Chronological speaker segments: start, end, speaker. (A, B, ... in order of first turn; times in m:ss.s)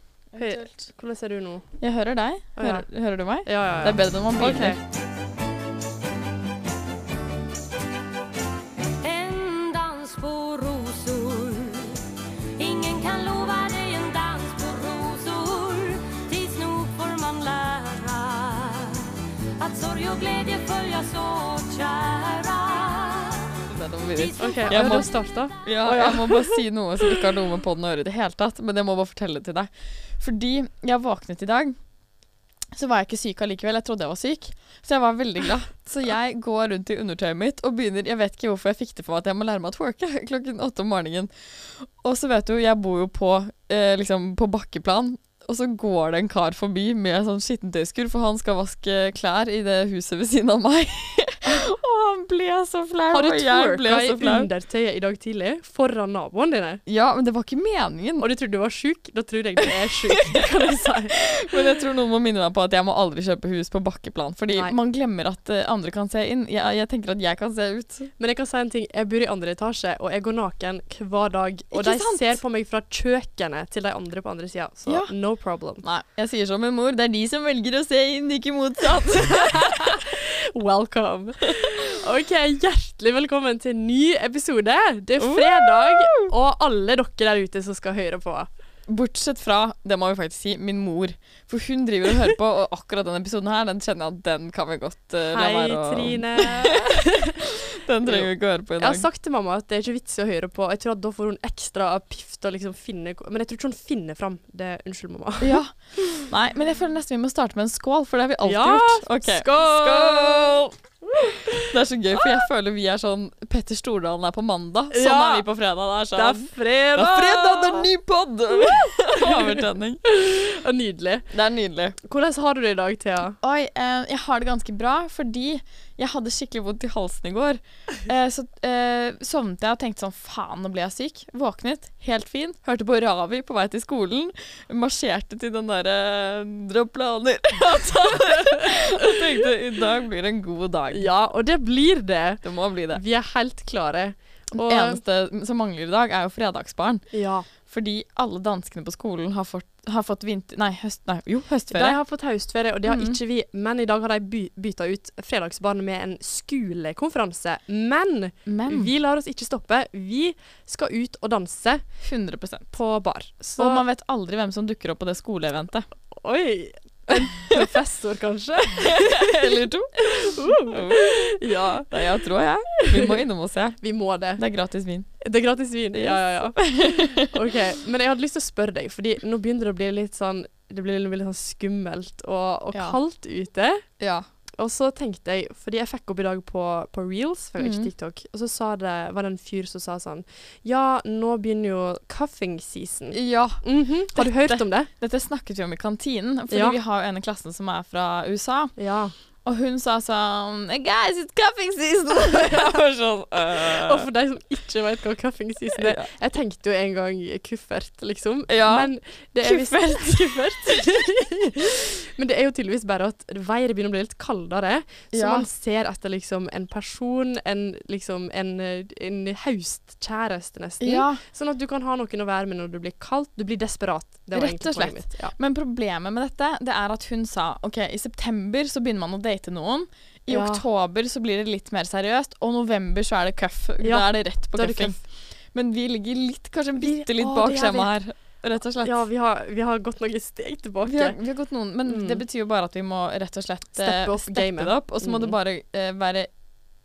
0:00.3-0:00.8 A
0:00.4-0:01.7 B
0:01.8-0:04.8 A
0:02.6-0:02.9 B
0:03.4-0:04.8 B
0:09.0-0:12.0 C
0:12.6-0:25.2 C
0:23.7-0:25.1 A
0:24.4-0:26.5 B
0:25.6-0:31.8 A
0:32.7-0:54.5 A
0:53.1-0:56.8 B
0:56.9-0:58.2 A
0:58.2-1:01.2 B
1:00.2-1:00.5 A
1:01.1-1:08.1 A
1:08.2-1:15.8 B
1:11.7-1:12.4 A
1:14.9-1:15.1 A
1:15.8-1:20.0 A
1:19.7-1:28.5 B
1:25.2-1:26.3 A
1:28.9-1:37.0 A
1:35.3-1:37.3 B
1:37.7-1:39.1 A
1:38.0-1:45.6 B
1:45.4-1:50.8 A
1:48.4-1:50.6 B
1:51.2-1:51.7 B
1:51.6-2:00.0 A
1:54.9-1:55.5 B
1:56.1-1:57.9 B
1:59.2-2:01.3 B
2:01.3-2:02.0 A
2:02.0-2:03.4 B
2:03.4-2:21.1 A
2:20.9-2:25.0 B
2:22.4-2:23.0 A
2:24.5-2:32.0 A
2:27.1-2:27.5 B
2:31.7-2:41.8 B
2:32.9-2:33.2 A
2:38.5-2:38.9 A
2:42.0-2:42.7 A
2:42.7-2:43.8 B
2:43.6-2:45.9 A
2:46.1-2:51.9 B
2:47.1-2:47.6 A
2:48.8-2:51.4 A
2:51.9-2:53.8 A
2:52.8-2:53.2 B
2:53.8-2:54.4 B
2:54.4-2:55.1 A
2:55.2-3:03.8 B
2:55.9-2:57.3 A
3:04.0-3:04.2 A
3:04.6-3:14.9 B
3:07.6-3:07.9 A
3:13.1-3:18.7 A
3:16.5-3:16.8 B
3:18.8-3:19.1 B
3:19.4-3:24.1 A
3:23.6-3:45.4 B
3:25.8-3:26.1 A
3:28.5-3:28.9 A
3:29.4-3:30.8 A
3:35.1-3:35.5 A
3:40.8-3:41.2 A
3:44.3-3:55.0 A
3:50.3-3:50.6 B
3:53.8-3:55.0 B
3:55.5-3:59.0 A
3:56.8-3:57.9 B
3:58.8-4:01.2 B
4:00.8-4:06.3 A
4:01.9-4:02.2 B
4:03.8-4:05.4 B